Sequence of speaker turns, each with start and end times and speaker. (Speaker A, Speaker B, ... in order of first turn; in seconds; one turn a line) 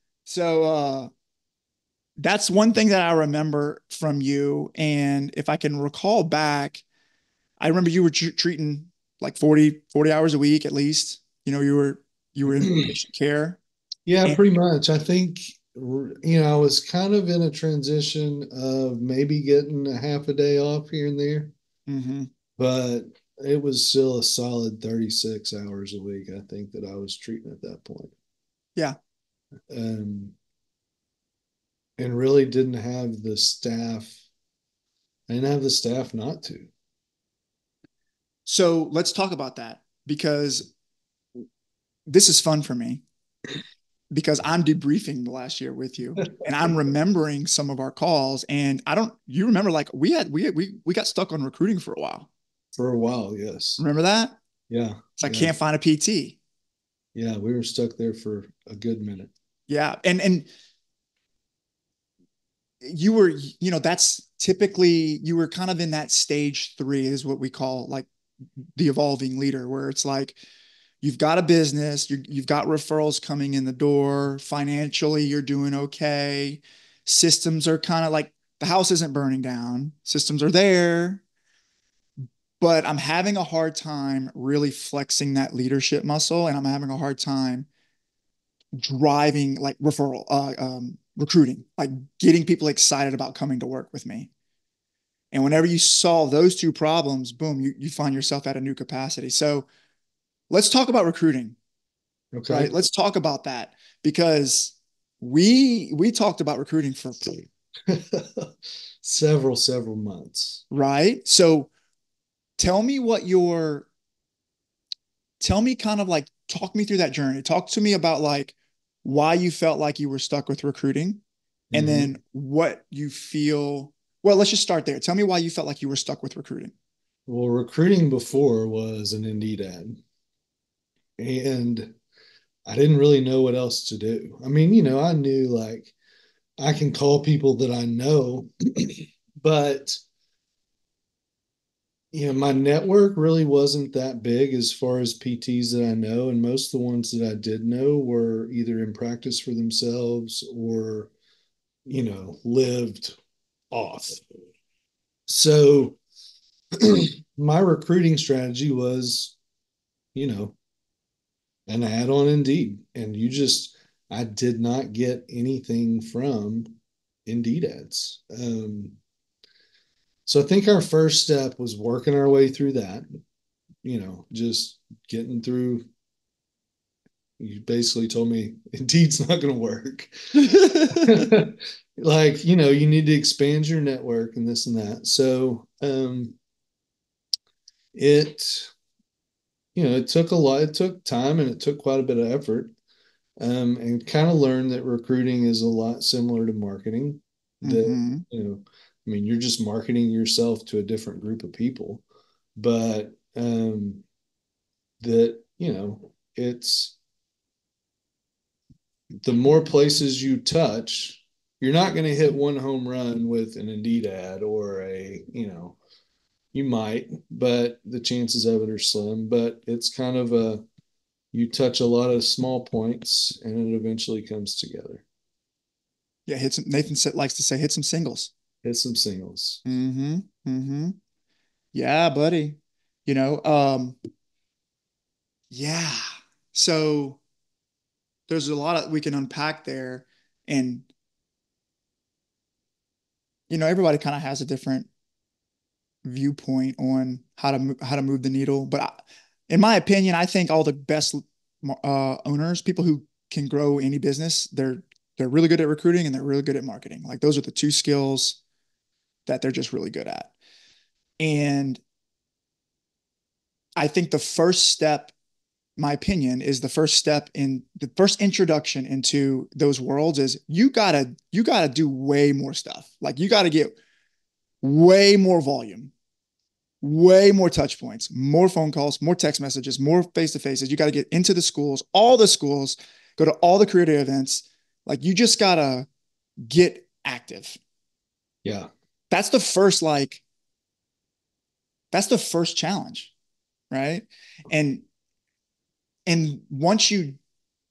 Speaker A: 0.3-1.1
Speaker A: 2.2-6.8
Speaker A: 7.6-13.6
Speaker B: 14.1-21.5
Speaker A: 21.9-22.3
Speaker B: 22.6-28.1
Speaker B: 29.7-30.4
Speaker B: 32.0-34.2
Speaker B: 35.3-36.7
Speaker A: 38.5-40.7
Speaker A: 42.1-43.0
Speaker A: 44.1-52.3
Speaker B: 52.8-53.8
Speaker A: 53.8-54.4
Speaker B: 54.7-55.5
Speaker A: 55.2-56.4
Speaker B: 57.1-59.3
Speaker A: 59.7-60.5
Speaker A: 62.8-68.1
Speaker A: 68.8-70.4
Speaker A: 71.0-81.2
Speaker A: 82.6-87.7
Speaker A: 88.7-94.3
Speaker A: 95.3-99.7
Speaker A: 100.5-101.6
Speaker B: 102.3-102.7
Speaker A: 102.5-107.5
Speaker B: 107.9-110.6
Speaker A: 110.7-111.7
Speaker A: 112.6-113.9
Speaker A: 115.4-121.2
Speaker B: 121.7-122.1
Speaker A: 121.7-126.7
Speaker B: 127.3-130.0
Speaker B: 131.2-132.0
Speaker B: 132.7-135.9
Speaker B: 136.6-140.0
Speaker B: 142.1-151.1
Speaker B: 151.9-153.2
Speaker B: 153.7-154.2
Speaker B: 155.3-156.0
Speaker B: 156.8-159.4
Speaker B: 160.2-160.6
Speaker B: 161.7-166.8
Speaker B: 167.3-169.0
Speaker B: 170.3-173.1
Speaker B: 173.8-175.9
Speaker B: 177.4-180.1
Speaker A: 180.4-181.2
Speaker B: 180.9-186.4
Speaker B: 187.9-188.7
Speaker B: 189.8-192.7
Speaker B: 193.4-202.0
Speaker A: 197.7-198.2
Speaker B: 202.6-204.1
Speaker B: 205.0-206.9
Speaker B: 209.2-215.8
Speaker B: 216.5-220.6
Speaker B: 221.3-225.0
Speaker A: 226.3-228.3
Speaker B: 228.6-229.6
Speaker A: 229.7-231.0
Speaker A: 231.7-234.0
Speaker A: 235.5-237.2
Speaker A: 238.3-240.9
Speaker A: 243.5-244.9
Speaker A: 246.0-258.4
Speaker A: 259.3-260.3
Speaker A: 261.2-261.8
Speaker A: 263.8-265.1
Speaker A: 265.8-273.8
Speaker A: 274.6-275.9
Speaker A: 276.8-285.9
Speaker A: 286.5-287.6
Speaker B: 288.4-288.7
Speaker A: 289.1-290.2
Speaker A: 291.9-293.1
Speaker A: 293.7-294.9
Speaker A: 296.1-297.2